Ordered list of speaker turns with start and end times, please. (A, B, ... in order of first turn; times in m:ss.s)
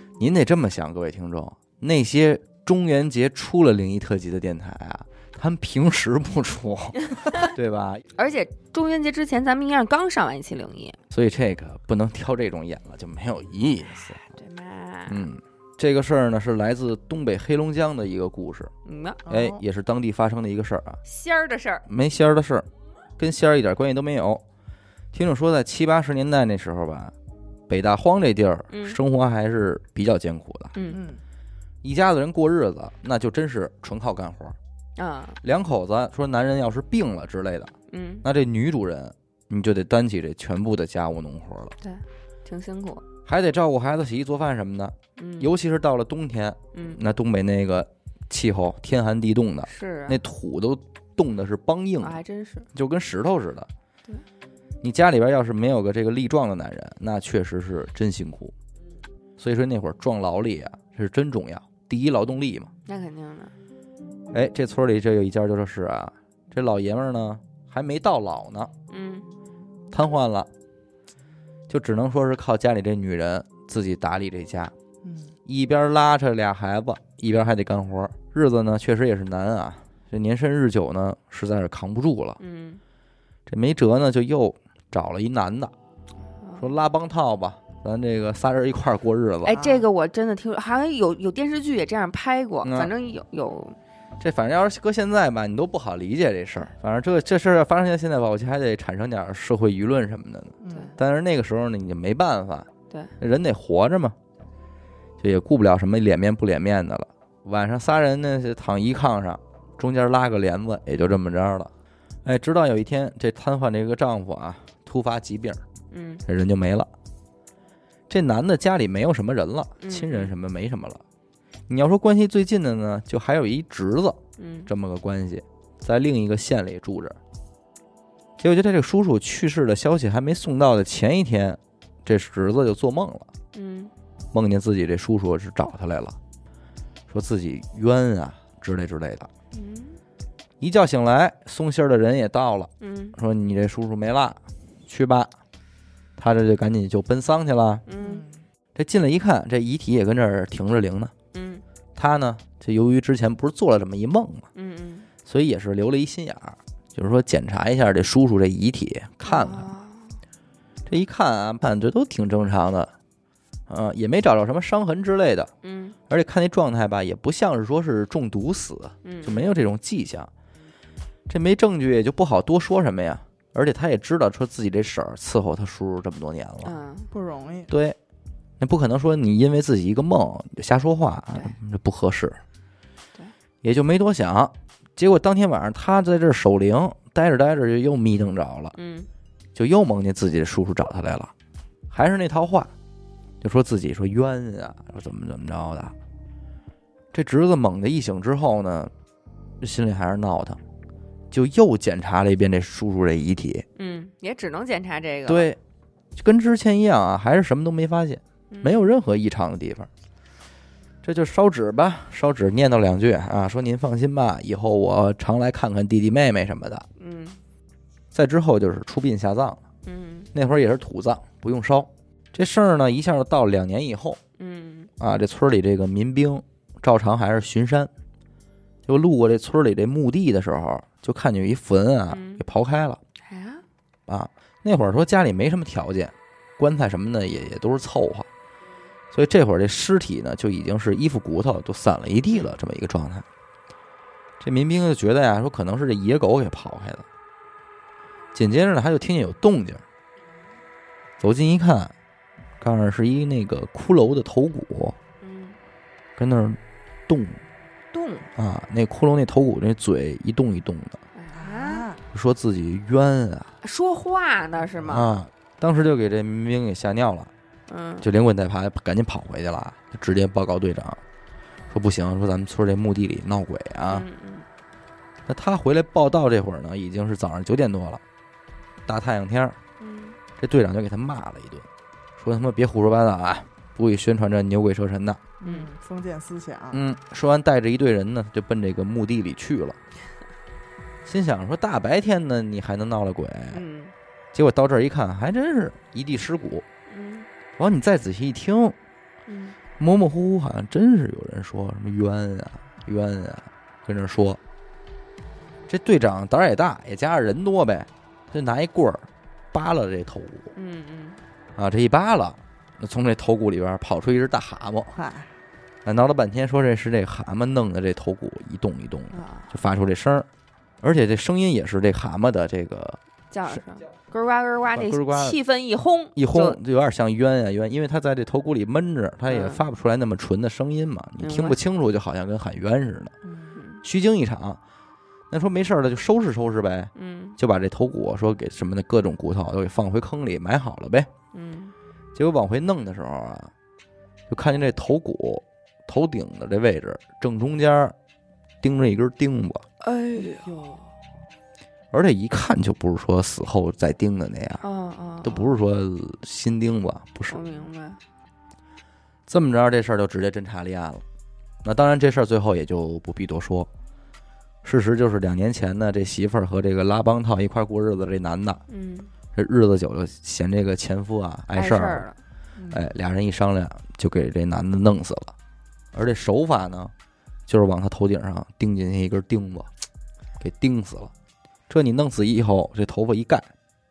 0:00.2-0:08.0 A
0:07.2-0:07.5 B
0:08.2-0:11.0 B
0:11.1-0:14.2 A
0:14.3-0:15.2 B
0:15.1-0:18.7 A
0:18.8-0:19.2 B
0:19.2-0:19.6 C
0:19.3-0:21.0 A
0:21.1-0:21.8 B
0:21.9-0:22.6 A
0:23.2-0:24.4 A
0:25.1-0:27.1 A
0:27.7-0:30.7 A
0:28.7-0:29.0 B
0:30.9-0:31.2 C
0:31.8-0:34.6 A
0:35.0-0:35.4 B
0:35.4-0:37.7 A
0:37.9-0:38.2 B
0:38.2-0:41.8 A
0:41.8-0:43.1 B
0:43.2-0:52.2 A
0:45.2-0:45.5 B
0:46.7-0:47.0 B
0:49.7-0:50.2 B
0:52.0-0:52.7 B
0:52.7-0:53.7 A
0:54.8-0:58.5 A
0:59.4-1:02.7 A
1:02.9-1:03.5 B
1:04.3-1:08.7 A
1:08.9-1:09.3 B
1:09.9-1:10.5 A
1:11.7-1:14.7 A
1:15.0-1:15.3 C
1:15.4-1:22.4 A
1:22.4-1:22.8 B
1:23.5-1:25.7 A
1:26.4-1:26.7 B
1:26.6-1:29.7 A
1:29.4-1:33.8 B
1:32.6-1:32.9 A
1:34.2-1:42.7 A
1:40.6-1:40.9 C
1:43.2-1:44.2 A
1:45.2-1:51.7 A
1:52.2-1:55.6 A
1:55.9-1:56.2 B
1:56.2-1:56.9 A
1:58.1-2:01.0 A
1:59.8-2:00.3 B
2:01.7-2:07.2 A
2:04.4-2:04.7 B
2:08.4-2:13.3 A
2:13.5-2:13.9 B
2:14.3-2:16.2 A
2:17.1-2:19.3 A
2:19.5-2:20.0 B
2:20.6-2:25.3 A
2:22.8-2:23.2 B
2:26.2-2:27.8 A
2:27.9-2:28.2 B
2:28.0-2:28.4 C
2:28.8-2:31.1 A
2:31.3-2:31.6 B
2:32.0-2:34.5 A
2:34.6-2:35.1 B
2:35.2-2:39.7 A
2:39.2-2:40.2 B
2:40.8-2:42.9 A
2:43.7-2:45.5 A
2:45.6-2:46.0 B
2:46.1-2:50.3 A
2:49.0-2:49.6 B
2:51.3-2:56.8 A
2:56.6-2:57.1 B
2:57.1-2:57.7 C
2:57.7-2:58.0 A
2:58.6-3:02.4 A
3:03.6-3:08.8 A
3:08.8-3:09.1 B
3:09.6-3:11.3 A
3:11.9-3:12.7 A
3:13.4-3:15.9 A
3:17.1-3:18.9 A
3:19.6-3:20.6 A
3:21.3-3:23.7 A
3:23.8-3:25.5 B
3:25.3-3:25.6 A
3:26.2-3:29.9 A
3:28.5-3:28.8 B
3:31.0-3:36.8 A
3:37.0-3:37.4 B
3:38.1-3:39.6 A
3:39.8-3:40.3 B
3:40.3-3:44.2 A
3:44.4-3:44.9 B
3:45.0-3:47.9 A
3:48.8-3:53.0 A
3:52.1-3:52.4 B
3:53.2-3:53.6 B
3:54.1-3:58.3 A
3:59.1-4:03.2 A
4:04.4-4:07.0 A
4:08.3-4:09.8 A
4:11.2-4:11.9 A
4:12.6-4:15.0 A
4:15.2-4:15.6 B
4:16.2-4:17.4 A
4:17.9-4:18.3 B
4:18.4-4:21.0 A
4:21.1-4:21.9 B
4:21.4-4:22.0 C
4:22.1-4:23.5 A
4:23.6-4:25.1 B
4:24.8-4:27.3 A
4:27.7-4:28.1 B
4:28.0-4:31.0 A
4:31.7-4:34.0 A
4:33.9-4:34.4 B
4:35.2-4:38.0 A
4:38.8-4:39.6 A
4:39.8-4:40.2 B
4:40.4-4:45.2 A
4:45.4-4:46.8 C
4:46.7-4:49.8 A
4:51.0-4:53.6 A
4:53.5-4:53.9 B
4:54.3-4:56.6 A
4:56.9-4:57.3 B
4:57.6-4:58.8 A
4:59.3-4:59.6 B
4:59.8-5:04.4 A
5:05.7-5:10.5 A
5:10.6-5:11.2 B
5:11.6-5:14.9 A
5:14.9-5:15.3 C
5:15.8-5:20.3 A
5:19.1-5:19.5 C
5:20.8-5:23.6 A
5:23.3-5:26.6 B
5:24.7-5:25.4 A
5:26.2-5:33.1 A
5:29.3-5:29.6 B
5:31.2-5:31.6 B
5:33.2-5:33.5 C
5:33.6-5:33.8 B
5:33.8-5:34.6 A
5:35.3-5:41.1 A
5:37.0-5:37.4 B
5:41.3-5:41.7 B
5:42.1-5:43.5 A
5:44.3-5:47.9 A
5:48.6-5:49.6 A
5:49.8-5:50.8 B
5:50.2-5:50.8 C
5:51.9-5:54.6 A
5:54.6-5:55.5 B
5:55.2-5:57.4 A
5:57.3-5:58.0 B
5:59.3-6:01.0 A
6:01.6-6:03.7 A
6:04.6-6:08.6 A
6:08.7-6:09.1 B
6:09.3-6:12.1 A
6:11.5-6:12.2 B
6:12.6-6:12.8 C
6:12.7-6:15.3 A
6:15.9-6:16.9 A
6:17.5-6:19.7 A
6:20.4-6:21.1 A
6:21.7-6:23.5 A